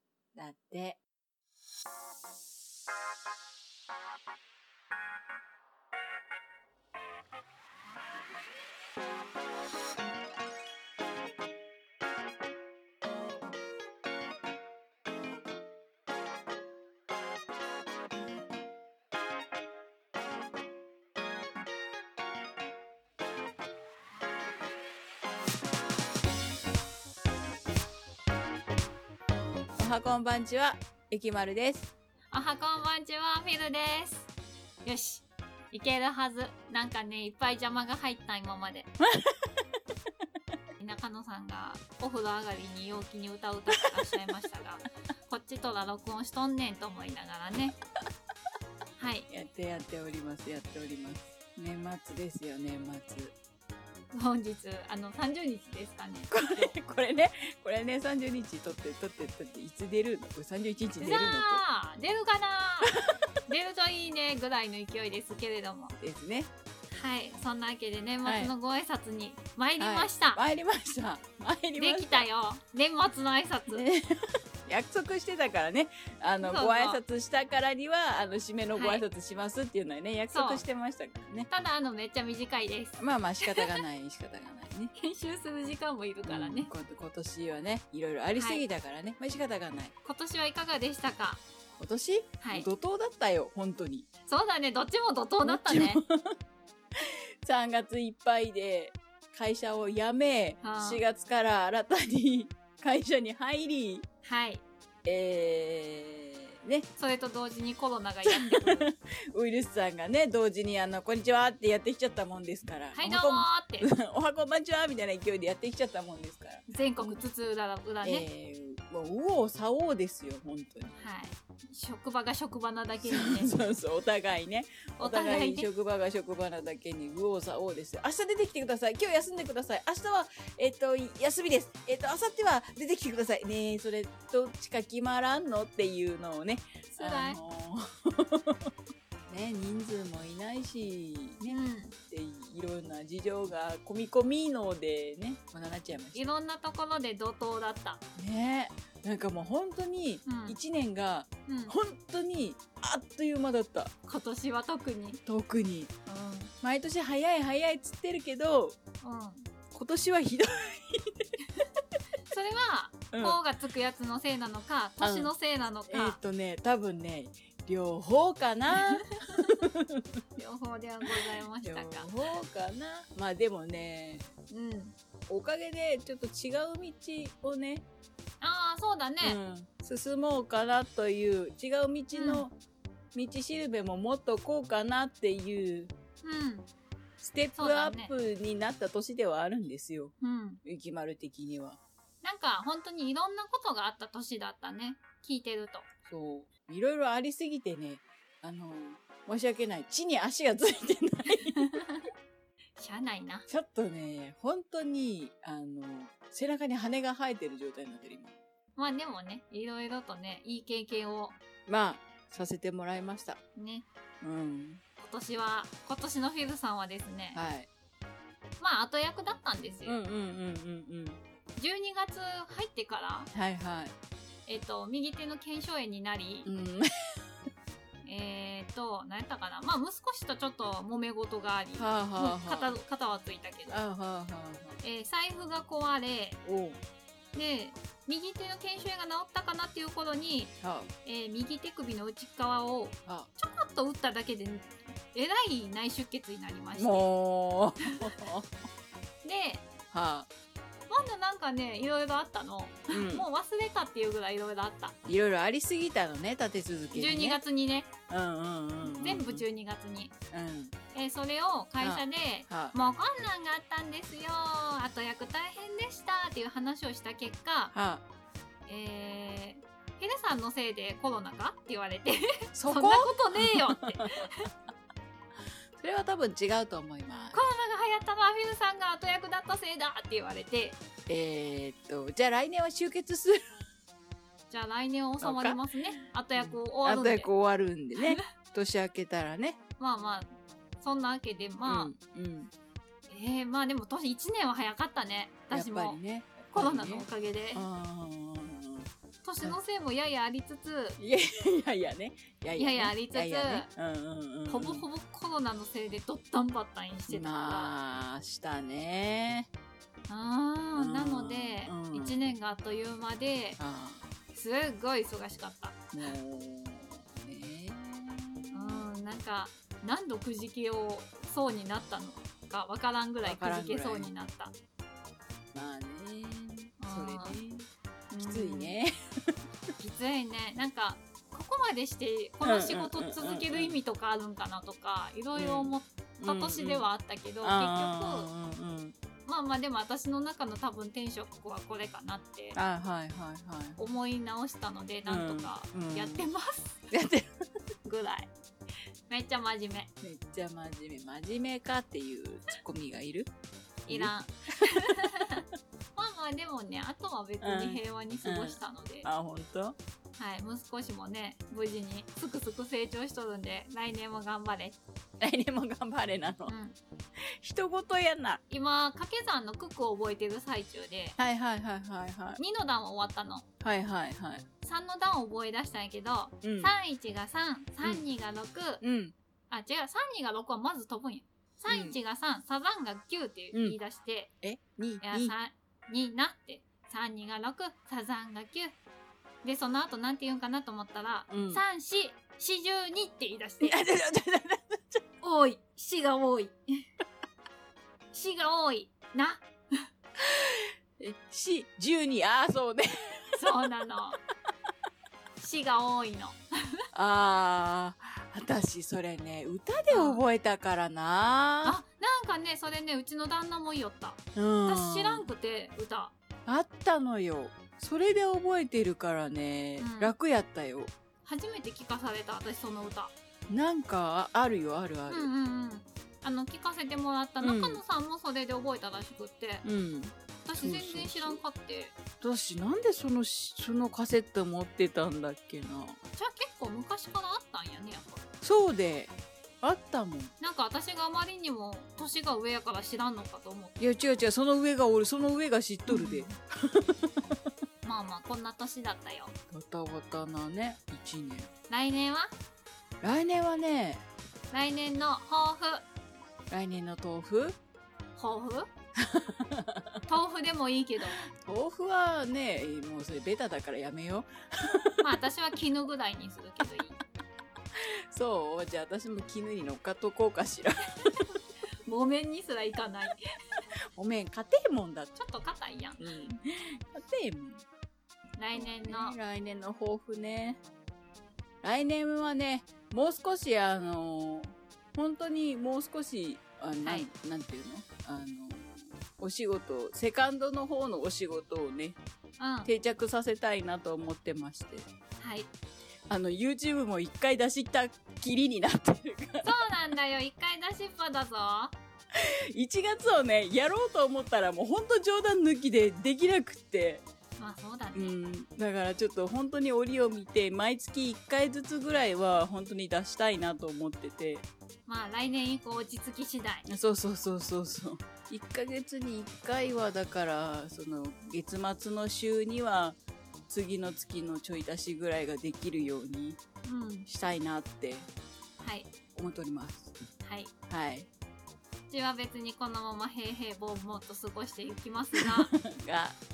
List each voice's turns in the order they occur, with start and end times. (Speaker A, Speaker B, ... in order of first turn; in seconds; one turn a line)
Speaker A: 0.3-1.0
Speaker A: 29.8-31.9
Speaker B: 32.3-34.3
Speaker B: 34.8-38.9
Speaker A: 39.0-39.5
Speaker B: 40.8-47.8
Speaker A: 43.8-44.2
Speaker B: 49.0-49.3
Speaker A: 49.3-53.4
Speaker B: 54.1-56.8
Speaker A: 56.3-61.6
Speaker B: 61.0-62.9
Speaker B: 63.5-66.0
Speaker A: 66.0-66.5
Speaker B: 66.9-70.4
Speaker A: 68.2-68.5
Speaker A: 69.8-72.3
Speaker B: 71.8-73.8
Speaker A: 73.7-74.0
Speaker A: 74.7-81.5
Speaker B: 76.4-77.0
Speaker B: 78.8-79.0
Speaker B: 80.3-80.6
Speaker B: 81.5-83.8
Speaker A: 83.0-84.9
Speaker B: 85.0-86.7
Speaker A: 86.3-89.9
Speaker B: 88.3-88.6
Speaker B: 90.0-91.4
Speaker A: 91.8-94.1
Speaker B: 92.4-92.7
Speaker B: 94.3-96.0
Speaker A: 95.4-96.3
Speaker A: 97.0-104.0
Speaker B: 100.6-101.0
Speaker B: 104.2-104.6
Speaker A: 105.0-106.9
Speaker B: 107.0-108.9
Speaker A: 108.3-117.2
Speaker B: 112.9-113.9
Speaker B: 116.7-118.3
Speaker A: 118.0-121.0
Speaker B: 121.0-123.6
Speaker A: 123.0-138.7
Speaker B: 125.0-125.7
Speaker B: 136.9-137.4
Speaker A: 139.3-146.2
Speaker B: 141.5-141.9
Speaker B: 146.1-148.0
Speaker A: 148.2-153.9
Speaker B: 150.2-150.6
Speaker B: 151.5-151.8
Speaker B: 154.1-155.2
Speaker A: 155.3-155.9
Speaker B: 156.1-156.5
Speaker A: 156.6-158.8
Speaker B: 159.0-159.5
Speaker A: 159.7-161.2
Speaker B: 162.3-166.2
Speaker A: 163.1-163.4
Speaker A: 165.0-165.3
Speaker A: 165.9-170.0
Speaker B: 168.7-169.5
Speaker B: 170.4-172.1
Speaker A: 171.6-174.3
Speaker B: 174.5-174.9
Speaker A: 175.3-177.8
Speaker B: 178.4-179.4
Speaker A: 179.2-182.6
Speaker B: 182.1-182.5
Speaker A: 183.1-185.9
Speaker B: 186.2-186.7
Speaker A: 187.2-190.1
Speaker B: 187.6-188.1
Speaker B: 190.2-190.6
Speaker A: 190.7-191.8
Speaker B: 192.2-195.9
Speaker A: 196.1-201.8
Speaker B: 201.6-202.0
Speaker B: 202.8-203.5
Speaker A: 203.5-208.3
Speaker B: 208.8-211.4
Speaker A: 211.7-213.4
Speaker B: 213.6-213.9
Speaker A: 214.2-214.8
Speaker B: 215.0-217.4
Speaker A: 217.3-217.7
Speaker B: 218.6-220.0
Speaker A: 219.9-221.2
Speaker B: 221.6-223.3
Speaker A: 223.3-223.9
Speaker B: 224.5-226.5
Speaker A: 226.4-226.9
Speaker B: 228.0-233.8
Speaker A: 231.8-232.8
Speaker A: 233.7-234.8
Speaker B: 234.8-236.4
Speaker A: 236.4-236.8
Speaker B: 237.3-240.5
Speaker A: 240.6-240.9
Speaker B: 241.1-247.1
Speaker A: 246.8-248.5
Speaker B: 249.2-249.7
Speaker A: 249.9-250.3
Speaker B: 250.9-254.9
Speaker A: 252.9-253.3
Speaker A: 255.1-257.4
Speaker B: 256.9-257.9
Speaker A: 258.1-259.4
Speaker B: 258.8-260.1
Speaker A: 260.3-260.7
Speaker B: 260.9-267.7
Speaker A: 261.8-262.8
Speaker A: 267.7-268.0
Speaker B: 268.7-274.5
Speaker A: 272.6-274.5
Speaker A: 275.8-277.4
Speaker B: 277.3-280.8
Speaker A: 281.1-283.4
Speaker B: 284.5-287.3
Speaker A: 285.2-285.6
Speaker A: 286.4-289.6
Speaker B: 289.8-291.9
Speaker A: 291.7-292.5
Speaker B: 293.1-296.0
Speaker A: 295.5-298.9
Speaker B: 296.5-297.6
Speaker B: 299.2-301.0
Speaker A: 301.0-304.9
Speaker B: 302.6-303.7
Speaker B: 304.5-307.7
Speaker A: 307.1-309.5
Speaker B: 310.1-313.6
Speaker A: 310.8-312.2
Speaker A: 313.6-314.1
Speaker B: 314.3-315.8
Speaker A: 315.9-318.8
Speaker B: 318.5-324.5
Speaker A: 323.2-324.1
Speaker A: 325.5-327.7
Speaker B: 326.8-327.4
Speaker B: 328.1-328.8
Speaker A: 328.2-329.3
Speaker B: 329.8-338.3
Speaker A: 332.4-333.8
Speaker A: 335.4-336.9
Speaker A: 337.4-338.9
Speaker B: 339.3-342.6
Speaker A: 342.6-343.8
Speaker B: 343.8-346.8
Speaker A: 345.1-346.3
Speaker A: 346.9-347.3
Speaker B: 347.9-348.3
Speaker B: 349.1-349.9
Speaker A: 350.0-353.3
Speaker B: 353.9-355.4
Speaker A: 354.9-355.4
Speaker B: 356.0-359.1
Speaker A: 357.4-359.8
Speaker B: 360.2-364.8
Speaker A: 365.2-366.5
Speaker B: 366.5-366.8
Speaker A: 367.4-368.4
Speaker B: 368.5-371.2
Speaker A: 371.2-372.4
Speaker B: 372.4-373.5
Speaker A: 373.6-374.4
Speaker B: 374.6-378.8
Speaker A: 376.4-376.7
Speaker A: 378.8-379.1
Speaker B: 379.5-384.3
Speaker A: 381.7-382.0
Speaker A: 384.4-385.3
Speaker B: 385.0-388.8
Speaker B: 389.4-393.7
Speaker A: 391.3-391.6
Speaker A: 393.6-395.0
Speaker B: 395.2-396.6
Speaker B: 398.1-399.9
Speaker A: 400.2-403.6
Speaker B: 403.4-404.2
Speaker B: 405.4-406.4
Speaker A: 406.9-411.8
Speaker B: 409.9-410.2
Speaker B: 411.6-416.1
Speaker A: 414.4-415.2
Speaker A: 416.5-420.9
Speaker B: 419.8-420.1
Speaker B: 421.2-423.1
Speaker A: 423.5-425.3
Speaker B: 425.1-429.6
Speaker A: 427.4-427.8
Speaker A: 429.6-431.4
Speaker B: 430.4-431.9
Speaker A: 432.2-436.0
Speaker B: 436.2-438.2
Speaker A: 438.4-440.3
Speaker B: 440.4-443.8
Speaker A: 443.8-447.2
Speaker B: 445.9-446.4
Speaker B: 447.8-449.3
Speaker A: 449.5-451.5
Speaker B: 451.7-452.3
Speaker A: 453.0-454.0
Speaker B: 454.5-455.9
Speaker A: 456.5-457.6
Speaker B: 458.1-458.7
Speaker A: 459.0-460.0
Speaker B: 460.1-461.2
Speaker A: 461.4-465.0
Speaker B: 465.0-467.0
Speaker A: 467.8-471.2
Speaker B: 471.9-473.2
Speaker A: 473.9-475.1
Speaker B: 475.2-476.3
Speaker A: 476.0-477.6
Speaker B: 478.4-479.2
Speaker A: 478.5-480.6
Speaker A: 481.6-492.0
Speaker B: 486.8-487.1
Speaker B: 492.4-492.7
Speaker A: 492.6-494.9
Speaker B: 495.2-495.5
Speaker A: 496.1-499.7
Speaker B: 499.4-501.8
Speaker A: 502.1-507.0
Speaker B: 507.4-508.1
Speaker A: 507.9-514.5
Speaker B: 514.9-516.6
Speaker A: 516.7-526.4
Speaker B: 526.6-527.1
Speaker A: 527.1-528.1
Speaker B: 528.6-528.9
Speaker A: 529.1-530.0
Speaker B: 530.2-530.5
Speaker A: 530.7-531.1
Speaker B: 531.9-535.5
Speaker A: 535.1-536.2